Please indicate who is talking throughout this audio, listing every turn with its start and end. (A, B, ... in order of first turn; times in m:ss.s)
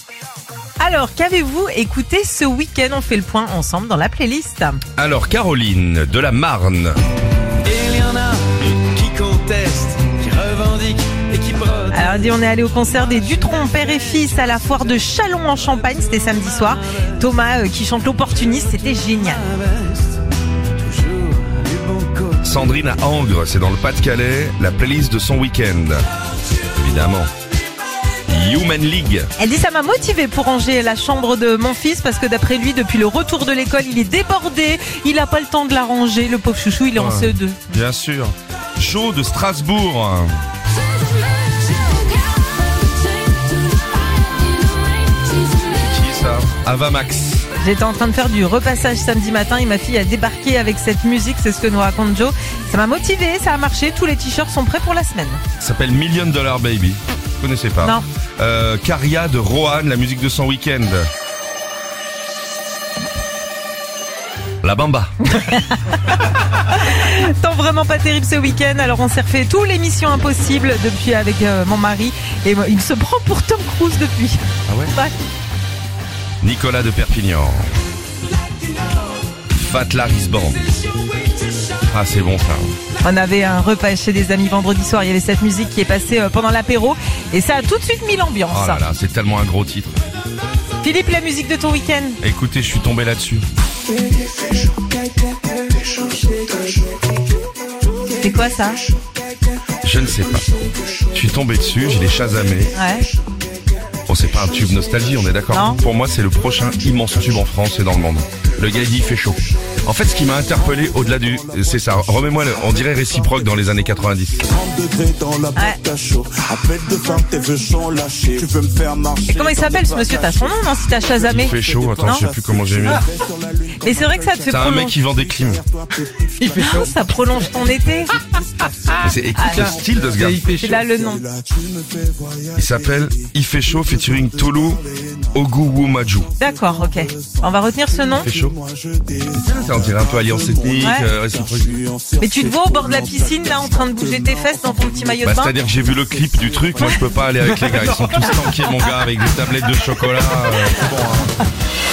0:00.8-0:04.8 A
0:05.0-0:07.0 B
0:07.6-0:12.2 C
0:11.9-0:19.4 A
0:19.6-0:20.0 C
0:20.8-0:22.4 C
0:22.4-0:26.0 B
0:26.7-0:27.3 B
0:28.3-0:29.3 B
0:29.4-0:37.7 A
0:36.9-0:40.3 B
0:45.6-0:47.4 B
0:47.6-0:55.4 A
0:55.6-1:01.1 B
1:04.6-1:05.2 B
1:05.3-1:15.1 A
1:14.7-1:14.9 B
1:16.4-1:17.7 B
1:19.5-1:20.7 B
1:21.8-1:22.7 B
1:23.0-1:28.8 A
1:28.5-1:30.0 B
1:30.8-1:32.2 A
1:32.2-1:33.4 B
1:38.2-1:38.8 A
1:39.8-1:40.5 B
1:41.1-1:42.8 B
1:42.7-1:43.1 A
1:44.1-1:54.5 B
1:45.5-1:45.8 A
1:54.5-2:00.1 D
1:55.5-1:55.8 A
1:59.3-2:02.3 A
2:01.2-2:03.0 B
2:01.7-2:02.2 D
2:02.8-2:04.6 D
2:03.8-2:05.0 A
2:04.4-2:05.6 B
2:05.6-2:06.9 D
2:06.5-2:08.2 A
2:09.0-2:10.6 B
2:09.3-2:11.2 A
2:09.8-2:12.5 D
2:12.6-2:14.8 B
2:15.3-2:16.3 B
2:16.4-2:18.3 A
2:16.4-2:17.4 D
2:18.2-2:19.2 D
2:18.2-2:18.5 B
2:19.3-2:21.8 B
2:20.5-2:21.0 D
2:20.8-2:21.1 A
2:21.7-2:25.0 D
2:22.2-2:25.5 A
2:25.2-2:31.3 B